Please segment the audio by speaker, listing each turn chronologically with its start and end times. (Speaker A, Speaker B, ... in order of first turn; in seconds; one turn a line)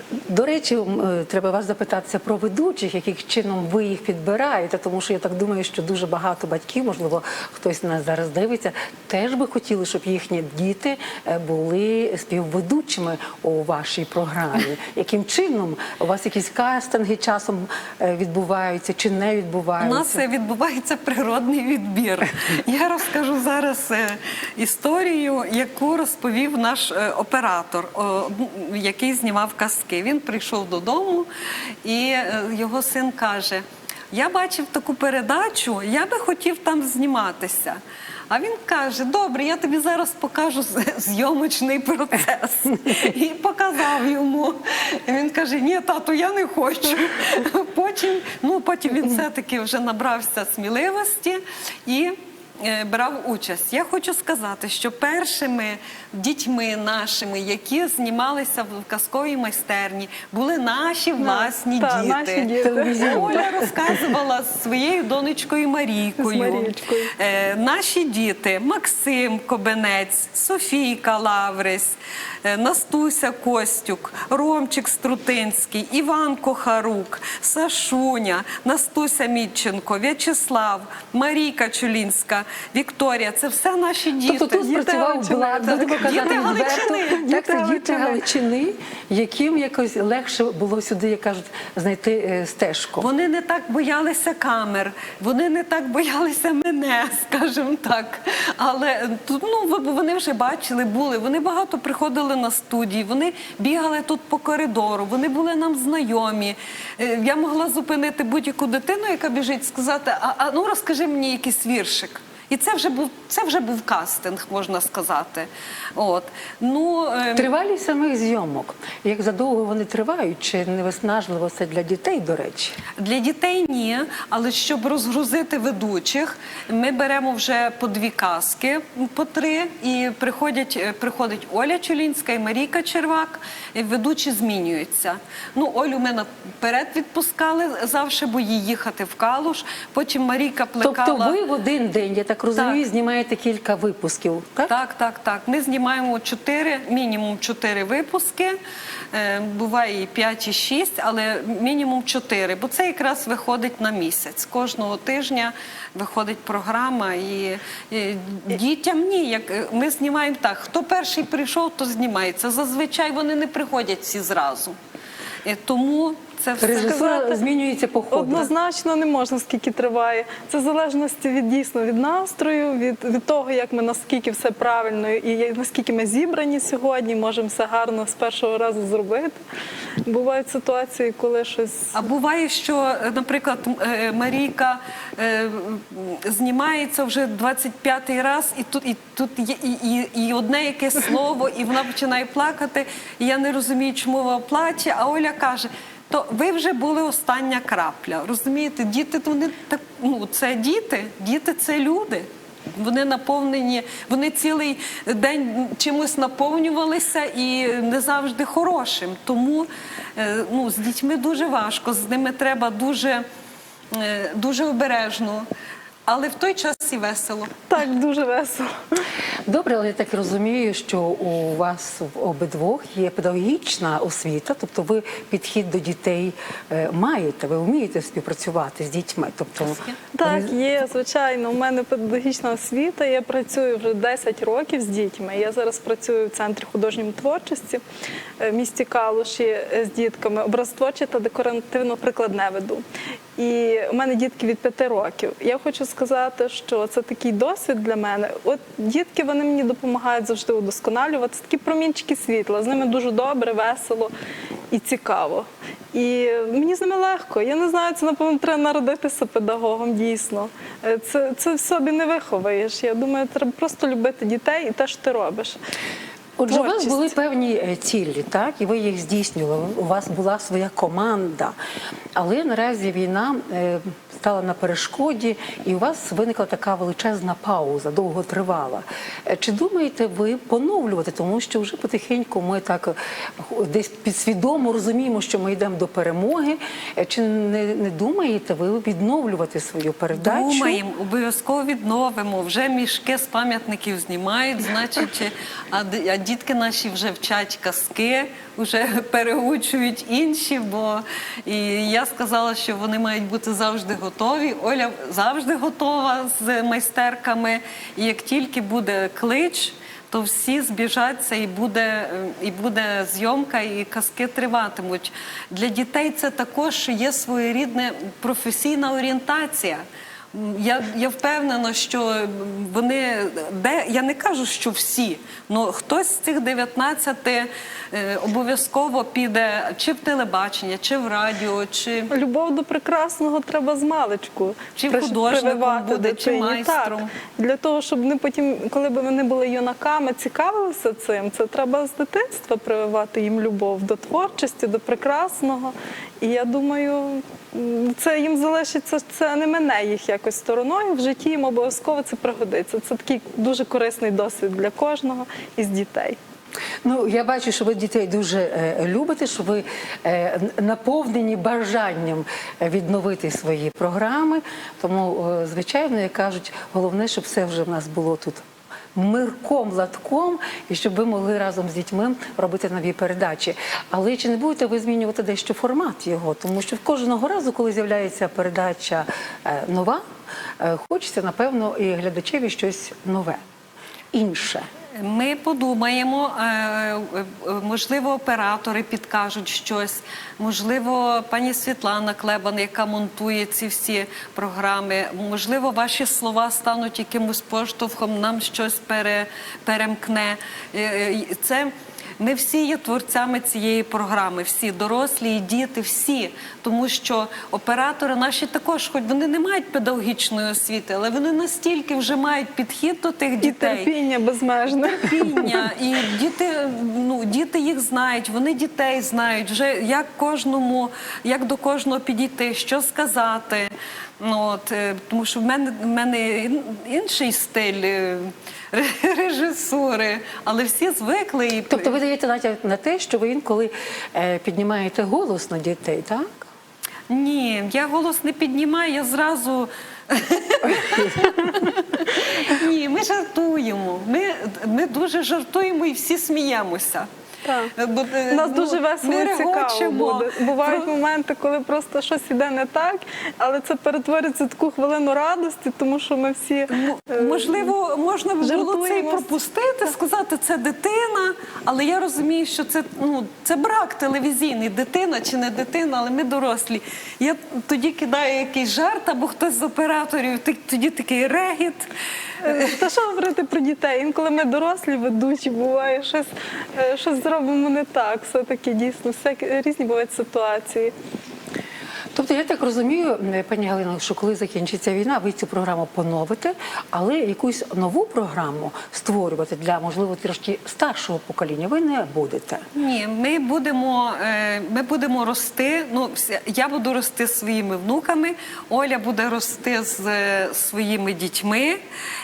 Speaker A: 0.3-20.2
Speaker B: 19.8-31.3
Speaker B: 31.8-85.1
Speaker C: 61.2-63.5
Speaker A: 62.6-63.9
Speaker C: 66.2-67.1
Speaker A: 84.3-93.1
Speaker C: 84.9-88.2
Speaker B: 85.6-87.2
Speaker B: 93.0-117.5
Speaker A: 117.4-122.8
Speaker B: 123.0-141.4
Speaker A: 140.8-144.7
Speaker B: 142.6-142.8
Speaker B: 144.7-148.6
Speaker B: 149.1-164.8
Speaker B: 165.4-167.2
Speaker A: 166.6-168.5
Speaker C: 166.8-167.4
Speaker C: 168.1-179.4
Speaker C: 180.1-182.0
Speaker B: 181.9-213.2
Speaker B: 213.9-215.5
Speaker B: 216.1-217.7
Speaker C: 217.7-218.7
Speaker A: 219.5-230.5
Speaker C: 230.1-237.8
Speaker C: 238.4-242.8
Speaker C: 243.4-254.1
Speaker C: 254.7-265.6
Speaker A: 266.4-271.6
Speaker C: 266.5-267.1
Speaker A: 272.2-290.8
Speaker B: 290.1-319.8
Speaker B: 320.3-332.1
Speaker C: 332.1-356.2
Speaker B: 334.8-337.1
Speaker A: 356.8-368.4
Speaker A: 368.9-380.0
Speaker A: 380.6-383.4
Speaker A: 384.1-384.7
Speaker B: 385.0-413.9
Speaker C: 413.4-415.6
Speaker B: 414.7-432.0
Speaker A: 431.7-436.5
Speaker B: 437.1-447.1
Speaker C: 447.5-447.8
Speaker B: 447.8-450.9
Speaker C: 448.3-457.7
Speaker B: 456.7-471.9
Speaker C: 458.4-459.3
Speaker C: 472.4-480.9
Speaker B: 472.4-472.8
Speaker A: 482.1-492.7
Speaker B: 492.7-501.8